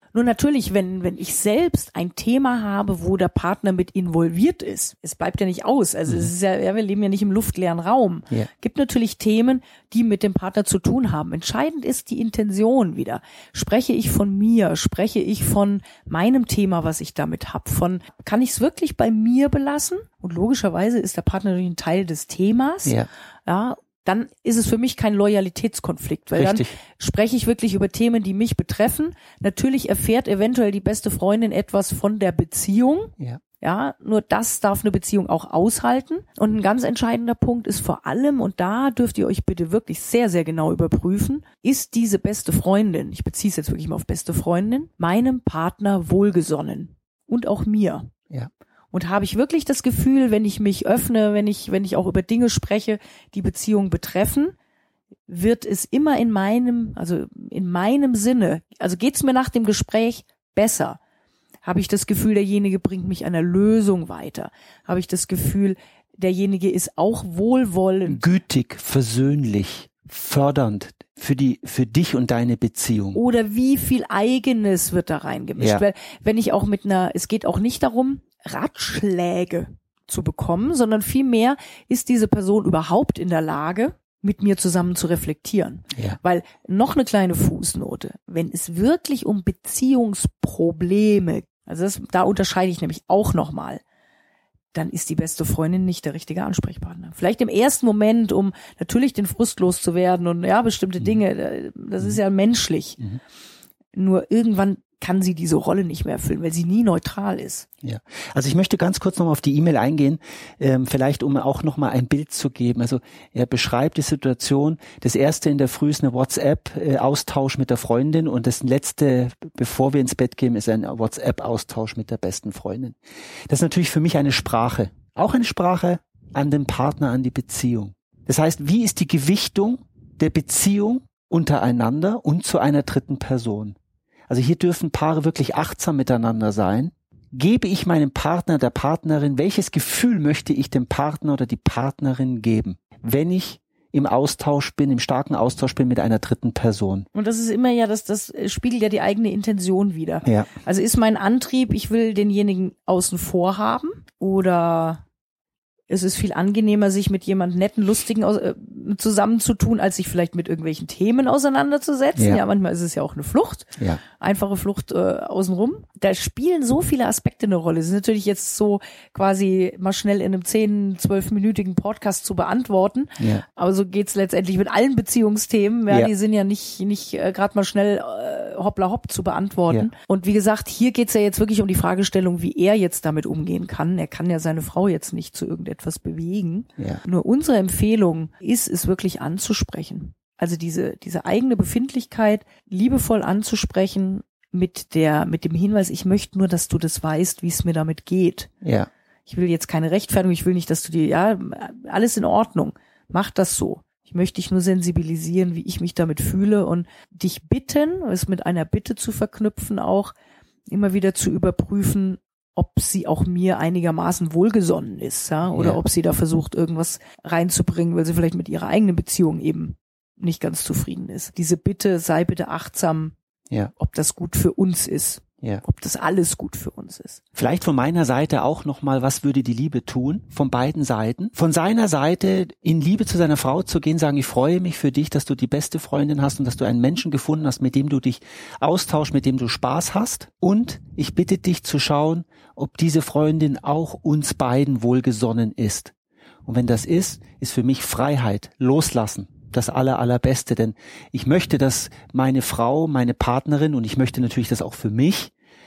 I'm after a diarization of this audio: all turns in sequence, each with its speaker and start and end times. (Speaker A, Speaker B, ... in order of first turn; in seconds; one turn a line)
Speaker A: 0.1-48.1
Speaker B: 26.4-26.8
Speaker A: 48.9-54.5
Speaker A: 55.3-61.0
Speaker A: 61.6-68.3
Speaker B: 68.1-73.2
Speaker A: 73.1-93.8
Speaker B: 75.6-75.8
Speaker A: 94.7-103.0
Speaker A: 103.9-107.7
Speaker B: 107.8-123.0
Speaker B: 123.5-133.8
Speaker B: 134.3-147.1
Speaker A: 147.1-155.0
Speaker B: 150.2-150.5
Speaker A: 155.9-198.5
Speaker B: 162.2-162.4
Speaker B: 173.2-173.4
Speaker B: 198.6-198.9
Speaker A: 199.3-210.1
Speaker A: 210.7-223.1
Speaker B: 215.5-215.8
Speaker A: 223.8-227.2
Speaker B: 227.3-245.9
Speaker B: 246.5-255.3